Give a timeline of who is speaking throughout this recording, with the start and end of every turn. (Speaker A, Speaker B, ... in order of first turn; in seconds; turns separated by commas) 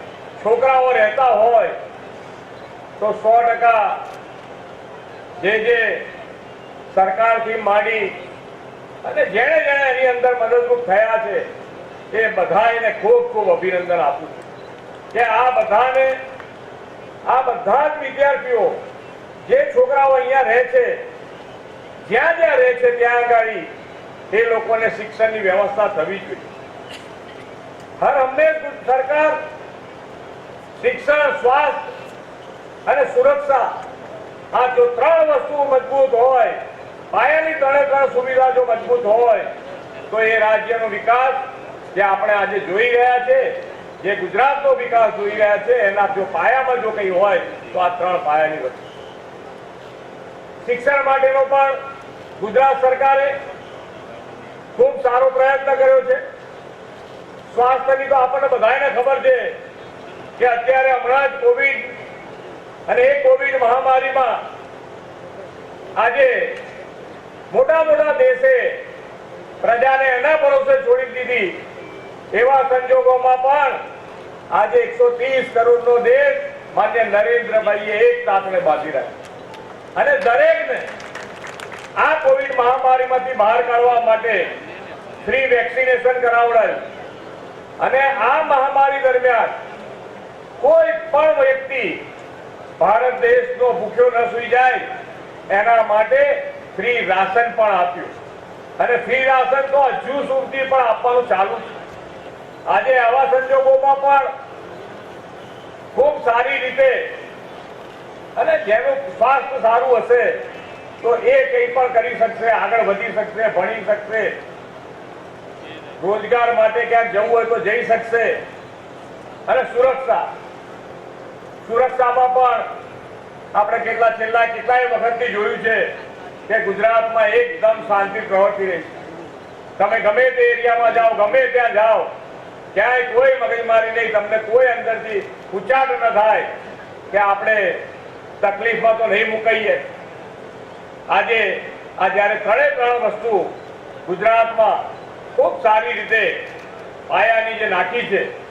Speaker A: 0.4-1.8, Speaker A: 3.0-4.0, Speaker A: 5.4-6.1, Speaker A: 6.9-8.2, Speaker A: 9.0-11.5, Speaker A: 12.1-14.5, Speaker A: 15.1-16.2, Speaker A: 17.3-18.8, Speaker A: 19.4-21.1, Speaker A: 22.0-23.7, Speaker A: 24.3-26.5, Speaker A: 28.0-29.4, Speaker A: 30.8-31.9, Speaker A: 32.9-33.7, Speaker A: 34.5-36.6, Speaker A: 37.1-39.5, Speaker A: 40.1-48.9, Speaker A: 50.6-51.8, Speaker A: 52.4-53.4, Speaker A: 54.8-56.2, Speaker A: 57.5-59.6, Speaker A: 60.4-61.9, Speaker A: 62.9-64.4, Speaker A: 66.0-66.6, Speaker A: 67.5-68.8, Speaker A: 69.6-71.6, Speaker A: 72.3-73.8, Speaker A: 74.5-79.2, Speaker A: 80.0-80.9, Speaker A: 82.0-84.5, Speaker A: 85.2-86.9, Speaker A: 87.8-89.6, Speaker A: 90.6-92.0, Speaker A: 92.8-94.9, Speaker A: 95.5-98.1, Speaker A: 98.8-101.7, Speaker A: 102.7-104.3, Speaker A: 105.9-107.2, Speaker A: 108.4-110.5, Speaker A: 111.0-114.4, Speaker A: 116.0-118.4, Speaker A: 119.5-120.3, Speaker A: 121.6-122.7, Speaker A: 123.5-129.0, Speaker A: 129.8-132.1, Speaker A: 132.7-136.5, Speaker A: 137.1-137.9, Speaker A: 138.4-139.9, Speaker A: 141.1-146.5, Speaker A: 147.1-148.3